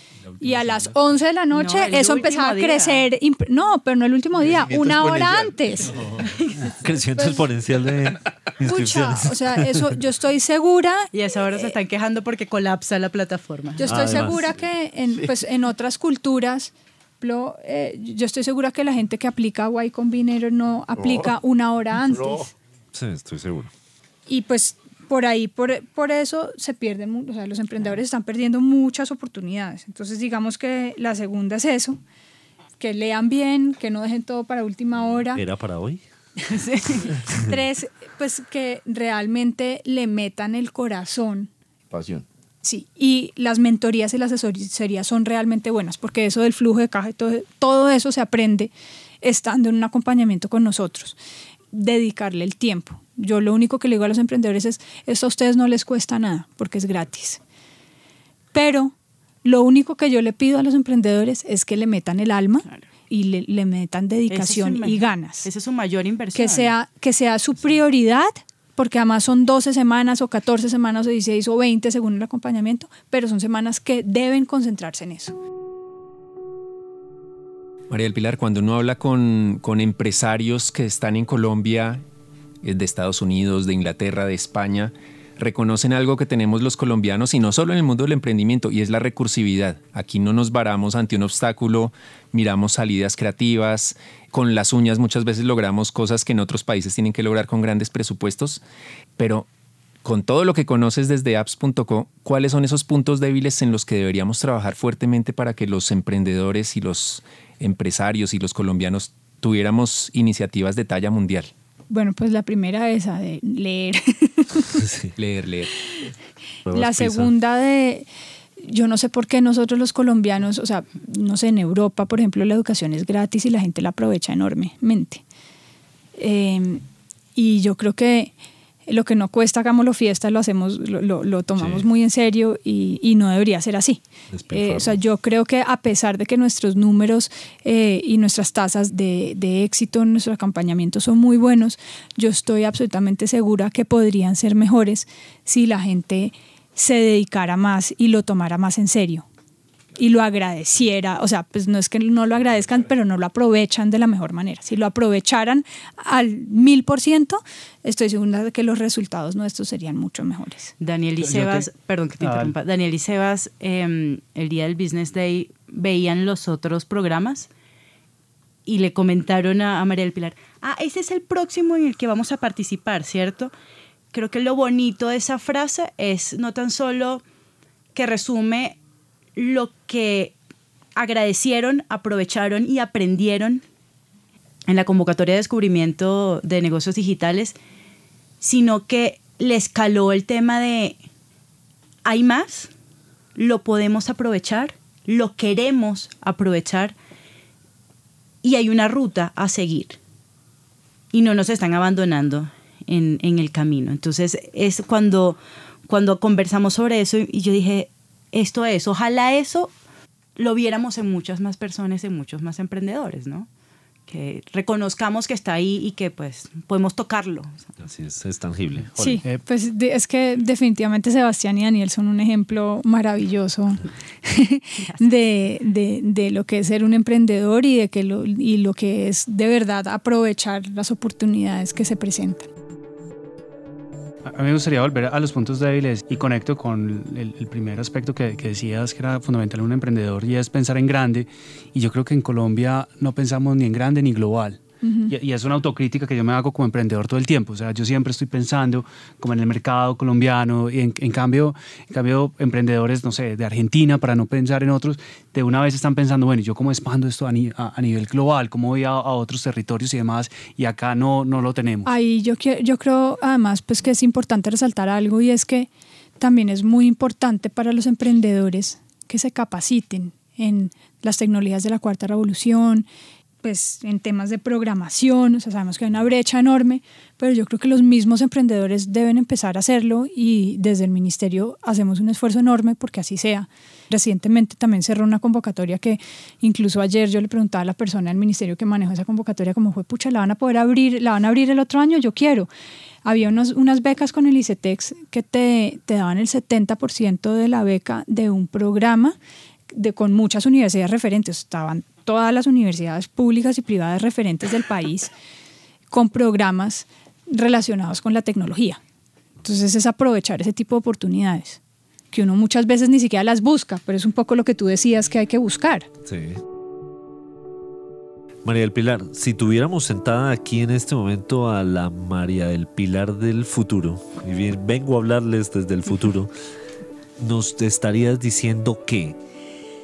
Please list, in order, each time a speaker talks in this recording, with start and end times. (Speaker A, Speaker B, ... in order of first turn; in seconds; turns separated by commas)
Speaker A: 0.4-6.0, Speaker B: 1.5-3.0, Speaker C: 4.4-5.9, Speaker B: 6.2-6.7, Speaker D: 6.7-9.8, Speaker A: 8.6-11.7, Speaker B: 11.1-14.2, Speaker A: 13.8-22.5, Speaker D: 13.8-14.4, Speaker C: 21.0-21.3, Speaker C: 22.0-22.5, Speaker D: 22.9-23.7, Speaker A: 24.3-32.0, Speaker A: 32.8-35.4, Speaker D: 35.3-36.0, Speaker B: 36.5-37.1, Speaker A: 37.3-41.5, Speaker C: 41.9-42.2, Speaker A: 42.6-51.2, Speaker A: 51.7-57.4, Speaker A: 58.5-65.5, Speaker B: 64.3-66.7, Speaker A: 66.3-75.3, Speaker E: 77.9-82.0, Speaker E: 82.6-98.6, Speaker E: 99.2-99.5, Speaker E: 100.0-111.5, Speaker A: 111.9-114.8, Speaker D: 114.7-115.1, Speaker E: 115.2-115.7, Speaker D: 116.7-117.3, Speaker A: 116.7-118.1, Speaker A: 118.6-125.2, Speaker A: 126.2-126.8, Speaker A: 127.3-128.3, Speaker A: 128.9-149.2, Speaker D: 131.6-131.9, Speaker D: 134.3-135.0, Speaker A: 150.0-160.7, Speaker B: 160.8-167.5, Speaker F: 161.2-162.5, Speaker B: 168.7-173.5, Speaker B: 174.1-177.2, Speaker B: 177.9-178.8, Speaker B: 179.3-180.3, Speaker B: 180.9-183.6, Speaker B: 184.7-187.6, Speaker B: 188.4-191.0, Speaker B: 192.0-192.7, Speaker B: 193.3-196.9, Speaker B: 198.4-200.0, Speaker B: 201.1-209.7, Speaker B: 210.4-213.5, Speaker B: 214.1-217.7, Speaker D: 217.8-219.2, Speaker A: 219.0-232.5, Speaker F: 234.3-261.9, Speaker A: 244.8-245.1, Speaker A: 261.8-272.9, Speaker A: 273.4-292.5, Speaker A: 293.0-299.1, Speaker A: 299.7-305.1, Speaker A: 305.9-308.8, Speaker A: 309.4-311.6, Speaker A: 312.1-315.9, Speaker D: 316.1-316.4, Speaker D: 318.4-326.3, Speaker D: 327.2-329.2